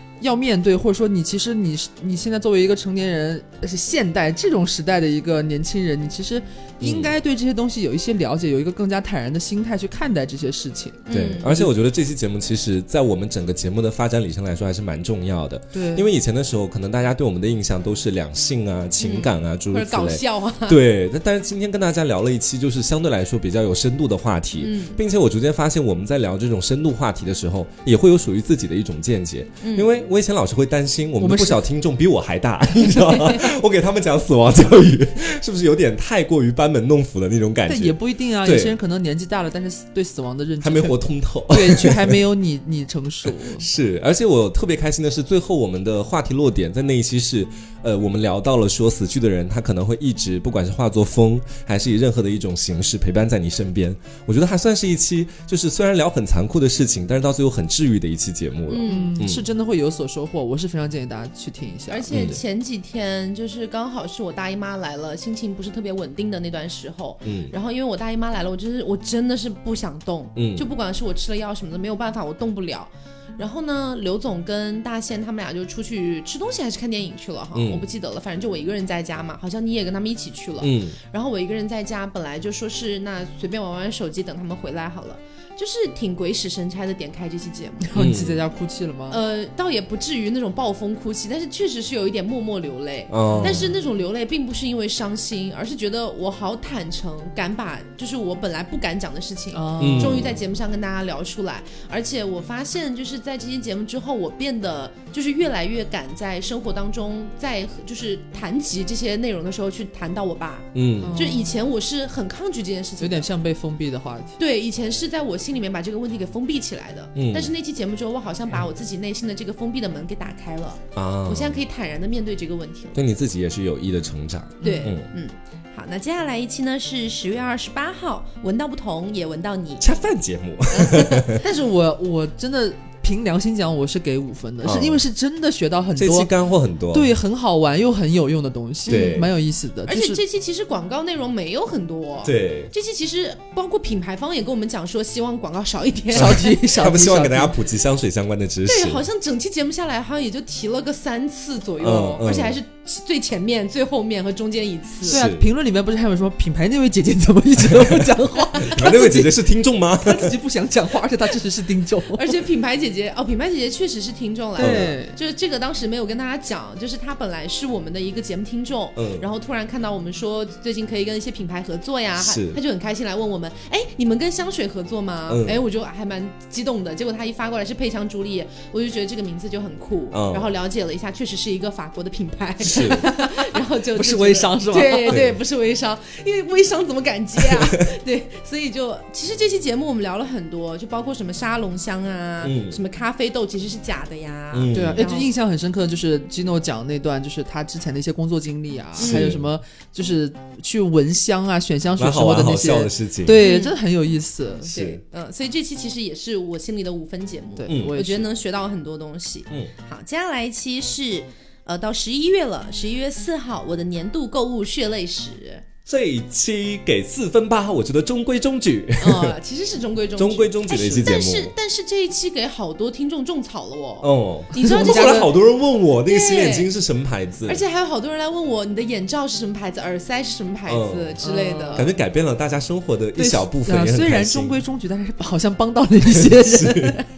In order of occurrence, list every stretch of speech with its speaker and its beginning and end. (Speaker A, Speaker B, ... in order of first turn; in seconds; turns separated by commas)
Speaker A: 0.2-11.1, Speaker B: 6.8-7.1, Speaker C: 11.1-11.7, Speaker B: 11.1-38.8, Speaker A: 15.7-16.1, Speaker C: 19.0-20.8, Speaker C: 24.6-25.0, Speaker C: 29.6-29.9, Speaker A: 31.2-31.6, Speaker C: 32.9-33.5, Speaker A: 37.7-43.6, Speaker B: 40.6-42.2, Speaker B: 43.4-59.4, Speaker C: 58.7-59.2, Speaker A: 58.9-62.3, Speaker C: 61.9-87.9, Speaker B: 62.1-62.4, Speaker B: 67.2-67.5, Speaker B: 70.3-70.7, Speaker B: 77.5-77.8, Speaker B: 80.6-81.0, Speaker A: 87.8-89.2, Speaker B: 87.9-88.4, Speaker C: 89.1-113.3, Speaker B: 93.1-93.7, Speaker A: 93.3-93.6, Speaker A: 99.5-100.2, Speaker B: 99.8-100.4, Speaker B: 110.7-111.2, Speaker A: 111.0-111.6, Speaker A: 113.0-114.3, Speaker C: 114.4-123.0, Speaker B: 117.1-117.5, Speaker B: 121.0-121.6, Speaker B: 122.9-125.1, Speaker A: 124.6-124.9, Speaker C: 124.6-129.9, Speaker B: 129.8-131.4, Speaker C: 130.7-131.3, Speaker A: 131.4-136.3, Speaker B: 134.6-135.0, Speaker B: 135.9-137.1, Speaker A: 136.9-140.2, Speaker B: 138.9-139.3, Speaker C: 138.9-139.2, Speaker C: 139.8-146.5, Speaker B: 142.2-142.7, Speaker A: 146.1-147.5, Speaker B: 146.1-149.0, Speaker C: 148.7-155.2, Speaker B: 151.8-152.6, Speaker A: 155.0-159.3, Speaker B: 155.1-155.5, Speaker B: 157.7-158.0, Speaker B: 158.7-160.3, Speaker A: 160.0-162.4, Speaker C: 162.1-195.3, Speaker A: 164.6-165.2, Speaker B: 164.6-164.9, Speaker B: 168.9-169.2, Speaker B: 172.2-172.6, Speaker B: 175.3-175.6, Speaker B: 180.1-180.5, Speaker B: 182.6-183.0, Speaker A: 182.7-185.2, Speaker B: 185.1-185.4, Speaker B: 187.4-187.8, Speaker B: 192.4-192.8, Speaker B: 194.5-195.0, Speaker A: 194.7-204.7, Speaker C: 198.9-199.3, Speaker B: 199.0-199.4, Speaker B: 202.0-203.4, Speaker C: 203.4-203.8, Speaker B: 204.7-205.0, Speaker C: 204.7-215.6, Speaker A: 207.6-208.3, Speaker B: 207.7-207.9, Speaker B: 215.8-219.3, Speaker C: 219.0-225.4, Speaker B: 220.2-221.5, Speaker B: 224.0-227.6, Speaker A: 224.6-225.3, Speaker C: 226.1-226.7, Speaker C: 227.5-231.9, Speaker B: 230.7-231.2, Speaker A: 231.2-231.8, Speaker B: 231.7-234.6, Speaker A: 233.2-237.0, Speaker B: 236.1-237.0